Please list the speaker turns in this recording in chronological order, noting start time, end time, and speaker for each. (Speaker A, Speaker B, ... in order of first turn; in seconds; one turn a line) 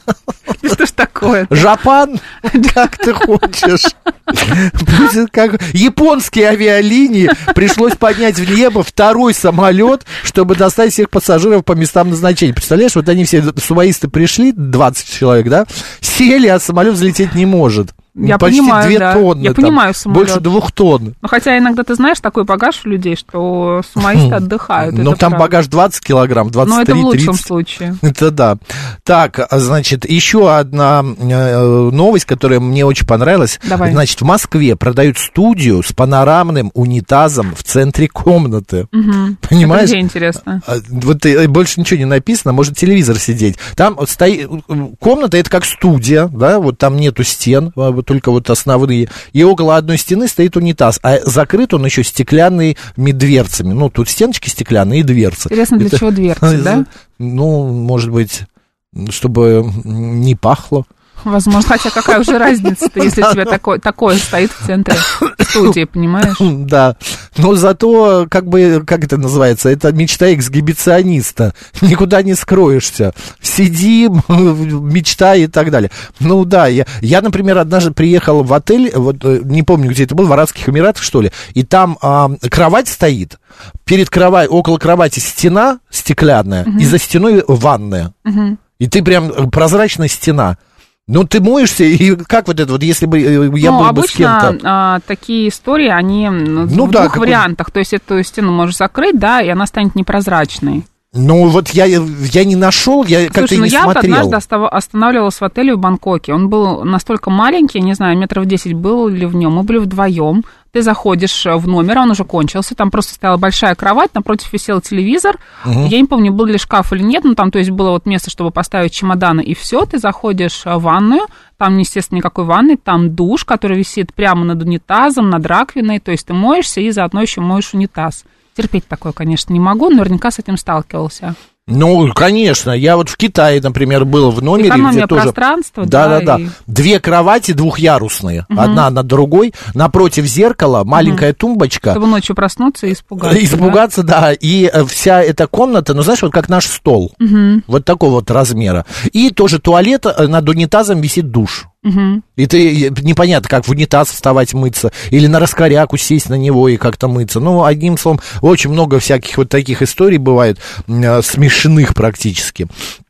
Speaker A: 0.6-1.7
Speaker B: 1.5-21.1
Speaker A: 2.5-3.3
Speaker A: 18.1-20.4
Speaker A: 21.2-25.5
Speaker B: 24.0-27.5
Speaker A: 26.6-28.0
Speaker B: 28.0-38.9
Speaker A: 33.6-34.0
Speaker A: 38.9-40.6
Speaker B: 39.4-40.0
Speaker B: 40.6-60.9
Speaker A: 55.5-56.9
Speaker A: 61.2-66.5
Speaker B: 63.0-63.5
Speaker B: 65.2-65.6
Speaker B: 66.2-88.1
Speaker A: 86.7-86.9
Speaker A: 88.2-88.6
Speaker B: 88.8-94.6
Speaker A: 93.6-100.8
Speaker B: 96.7-97.5
Speaker B: 101.1-104.4
Speaker A: 103.3-131.4
Speaker B: 115.6-115.9
Speaker B: 131.7-142.0
Speaker A: 134.6-136.6
Speaker A: 138.5-138.8
Speaker A: 140.9-141.2
Speaker A: 141.9-143.8
Speaker B: 143.2-147.2
Speaker A: 147.2-147.6
Speaker B: 147.7-151.7
Speaker A: 151.8-152.2
Speaker B: 152.4-162.7